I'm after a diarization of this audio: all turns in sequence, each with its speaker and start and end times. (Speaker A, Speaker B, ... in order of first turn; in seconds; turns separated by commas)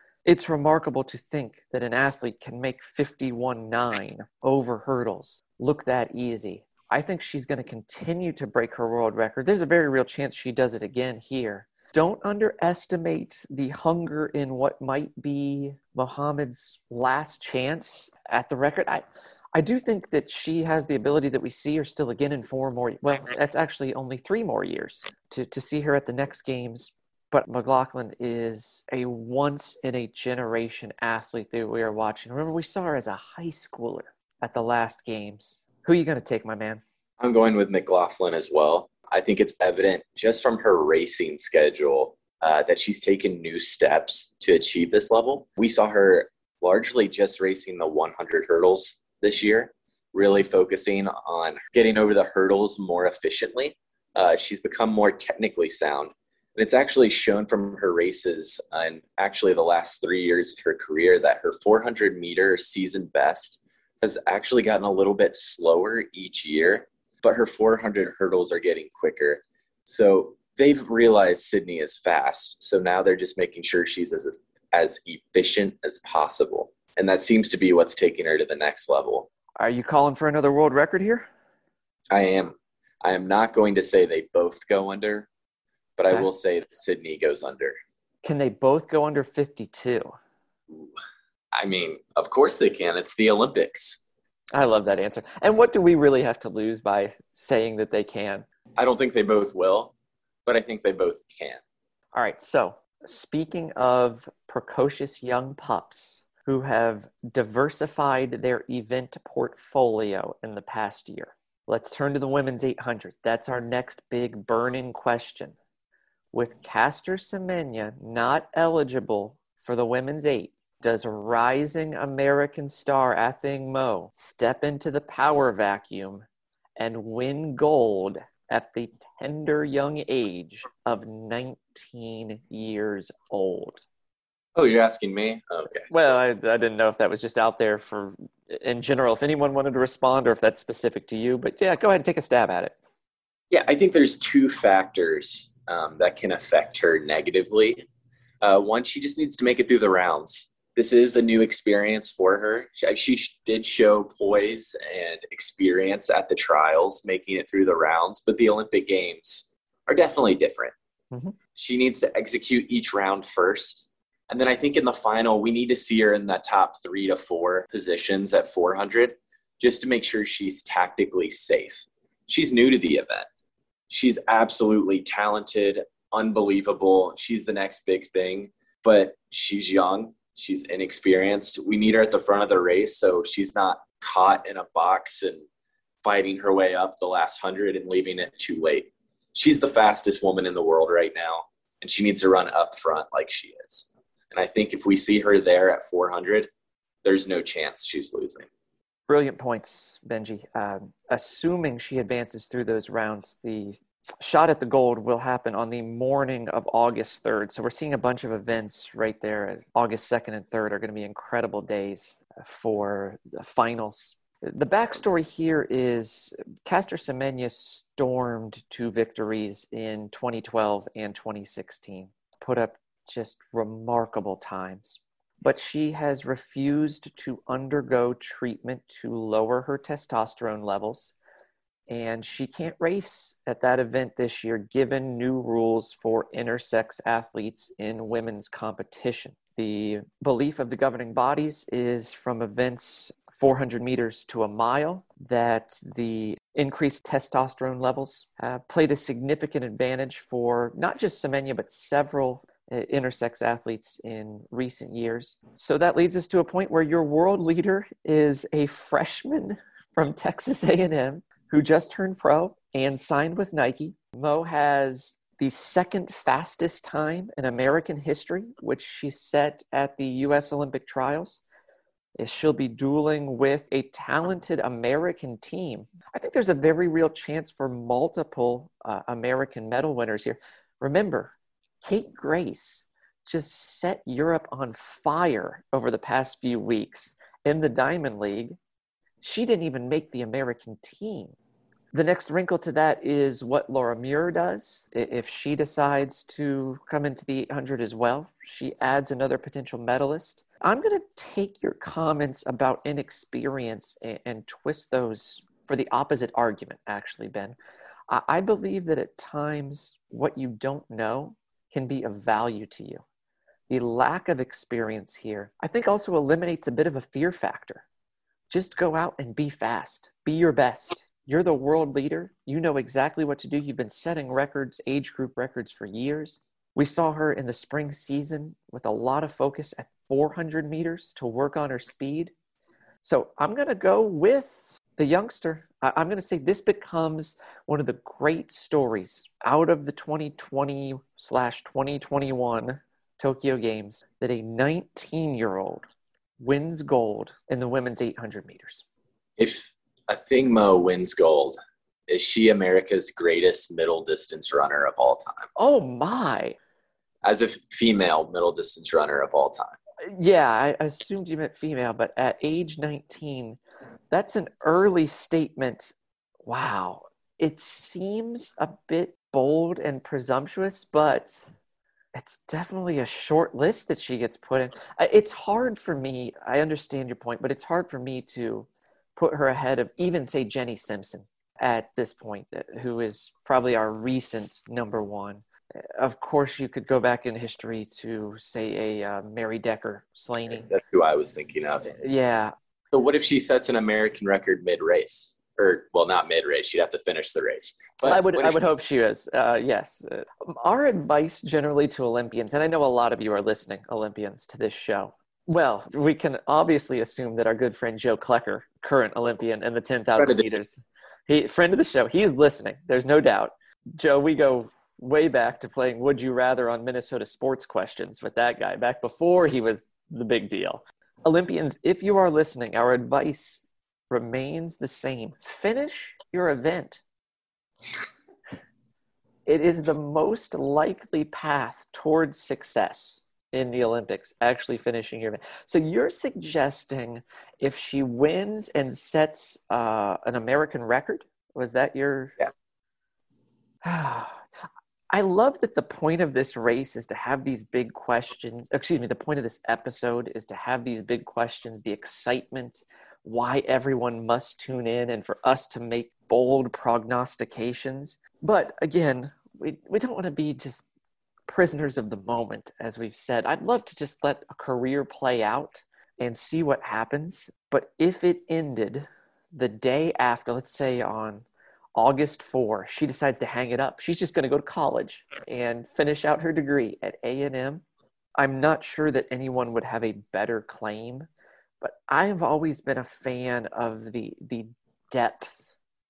Speaker A: 0.2-19.0, Speaker A: 19.5-36.8, Speaker B: 37.2-79.3, Speaker A: 79.6-81.2, Speaker B: 82.1-85.3, Speaker B: 86.0-87.8, Speaker A: 88.2-90.1, Speaker B: 91.5-94.0, Speaker A: 94.5-98.4, Speaker B: 98.8-99.9, Speaker B: 100.5-101.6, Speaker A: 102.1-115.5, Speaker A: 116.3-126.2, Speaker A: 126.8-133.8, Speaker B: 134.6-135.9, Speaker A: 135.9-142.8, Speaker B: 143.5-147.9, Speaker B: 148.4-160.7, Speaker B: 161.5-173.3, Speaker B: 173.9-185.4, Speaker B: 186.0-196.5, Speaker B: 197.0-198.5, Speaker A: 199.1-231.1, Speaker A: 231.9-271.4, Speaker A: 272.2-288.6, Speaker A: 289.2-291.4, Speaker A: 291.9-307.6, Speaker A: 308.1-313.0, Speaker A: 313.7-317.8, Speaker A: 318.5-332.3, Speaker A: 333.0-345.9, Speaker A: 346.4-348.8, Speaker B: 349.4-351.6, Speaker B: 352.1-355.5, Speaker A: 355.6-356.6, Speaker B: 357.2-359.8, Speaker A: 360.0-363.6, Speaker A: 364.1-365.9, Speaker A: 366.4-371.5, Speaker A: 372.1-385.4, Speaker A: 386.0-390.7, Speaker B: 390.5-391.9, Speaker A: 391.9-392.5, Speaker B: 392.9-398.6, Speaker A: 398.0-427.0, Speaker B: 410.2-410.4, Speaker A: 429.4-442.4, Speaker A: 443.8-444.4, Speaker A: 445.1-460.9, Speaker A: 461.5-477.8, Speaker A: 478.4-481.3, Speaker A: 481.8-485.6